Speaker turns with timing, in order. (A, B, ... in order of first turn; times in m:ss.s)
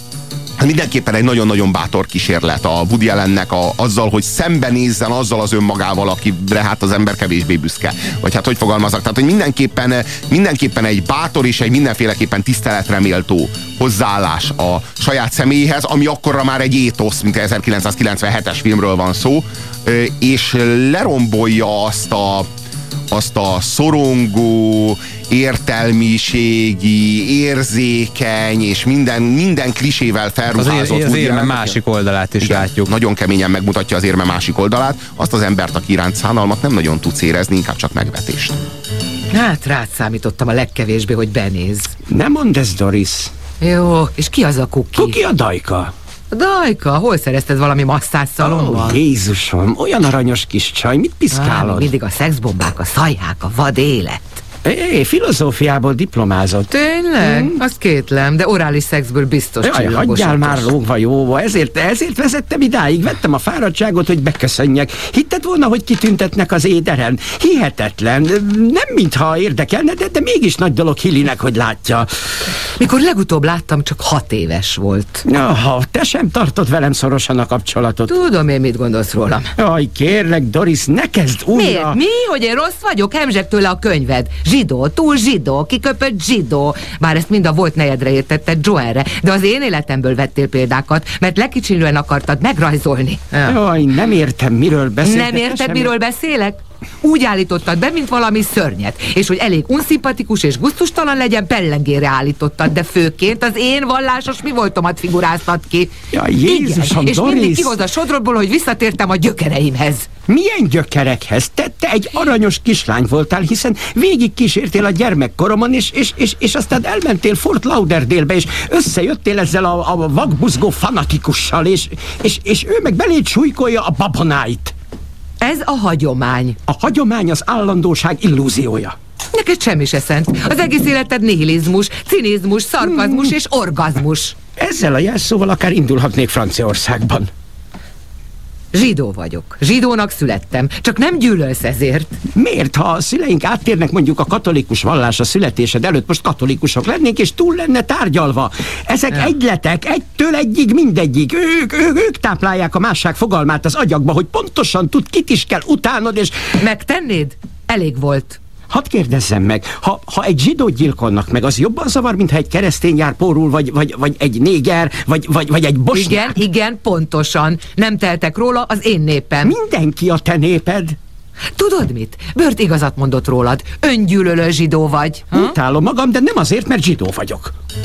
0:00.6-0:22.5 A
0:23.1-0:31.8 A
0:30.5-0:32.9 B
0:32.4-0:38.6 A
0:39.3-0:41.9 C
0:42.1-0:43.3 D
0:43.6-0:45.2 C
0:44.9-0:45.9 D
0:46.3-0:49.0 C
0:48.4-0:51.9 D
0:51.3-0:54.4 C
0:54.6-0:57.6 D
0:56.7-1:00.7 C
0:59.6-1:12.1 D
1:12.8-1:15.2 C
1:15.2-1:18.1 D
1:18.1-1:19.5 C
1:19.6-1:22.0 D
1:21.5-1:33.5 C
1:33.4-1:35.9 D
1:35.0-1:50.1 C
1:46.1-1:47.7 D
1:50.3-2:04.7 D
2:05.4-2:06.6 C
2:06.7-2:08.9 D
2:09.3-2:14.3 C
2:13.0-2:13.3 D
2:14.6-2:17.3 D
2:18.7-2:22.1 C
2:22.3-2:36.5 D
2:36.6-2:38.4 C
2:38.7-2:46.4 D
2:45.9-2:49.5 C
2:49.4-2:51.0 D
2:51.6-2:55.5 C
2:55.3-2:57.5 D